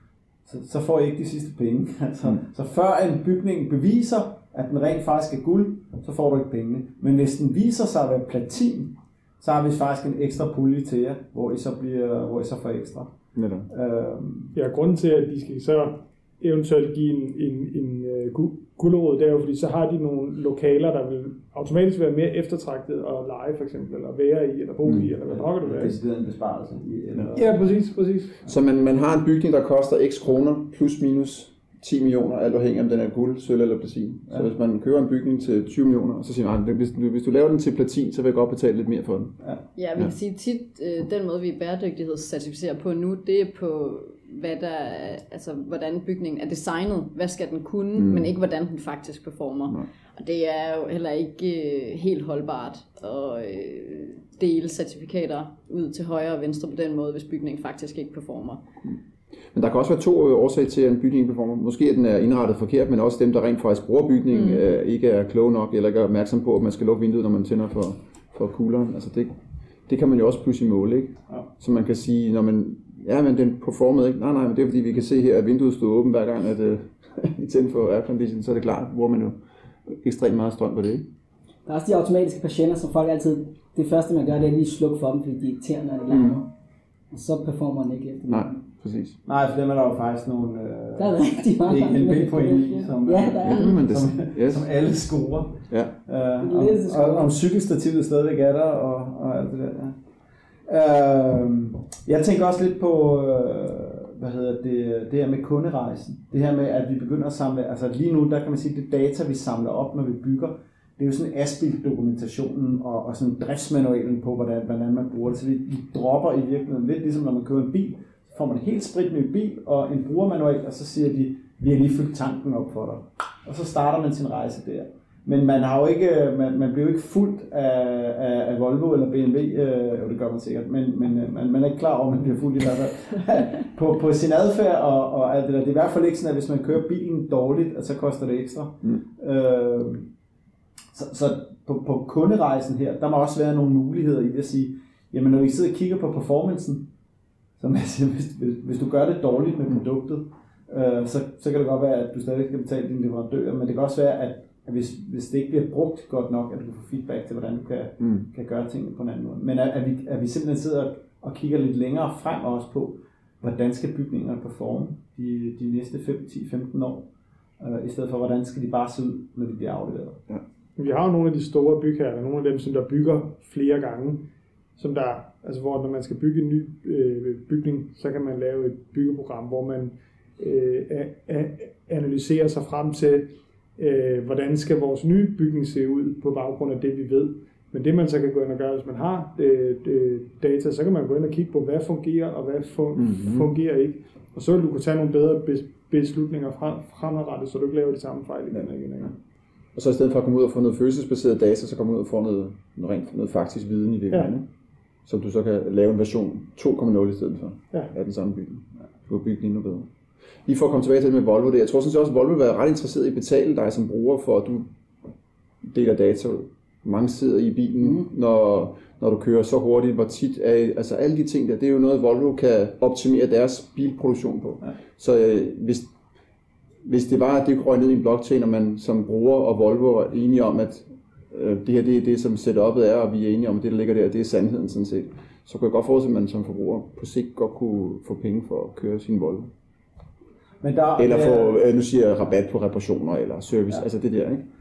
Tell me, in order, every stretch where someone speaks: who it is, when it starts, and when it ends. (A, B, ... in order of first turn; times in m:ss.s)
0:00.4-0:13.1 A
0:13.4-0:13.7 B
0:13.7-0:14.6 A
0:14.6-0:26.0 C
0:25.2-0:27.6 A
0:27.3-0:28.4 C
0:28.5-0:39.4 B
0:39.8-0:58.6 D
0:48.0-0:48.3 B
0:59.5-1:09.4 B
1:04.3-1:04.6 D
1:09.9-1:21.1 B
1:21.7-1:26.5 E
1:26.1-1:26.4 B
1:27.1-1:28.6 E
1:28.3-1:29.2 B
1:29.3-1:40.0 A
1:31.0-1:33.8 E
1:33.4-1:34.6 B
1:35.7-1:36.0 B
1:36.4-1:37.4 E
1:40.7-2:20.1 A
2:20.9-2:26.9 A
2:27.6-2:47.1 A
2:47.6-2:50.2 A
2:50.8-2:54.2 C
2:54.8-3:19.2 C
3:13.0-3:13.5 B
3:19.8-3:24.5 B
3:25.1-3:29.9 B
3:30.5-3:34.7 B
3:35.6-3:45.9 B
3:46.8-3:59.5 B
4:00.6-4:01.6 A
4:01.0-4:04.5 B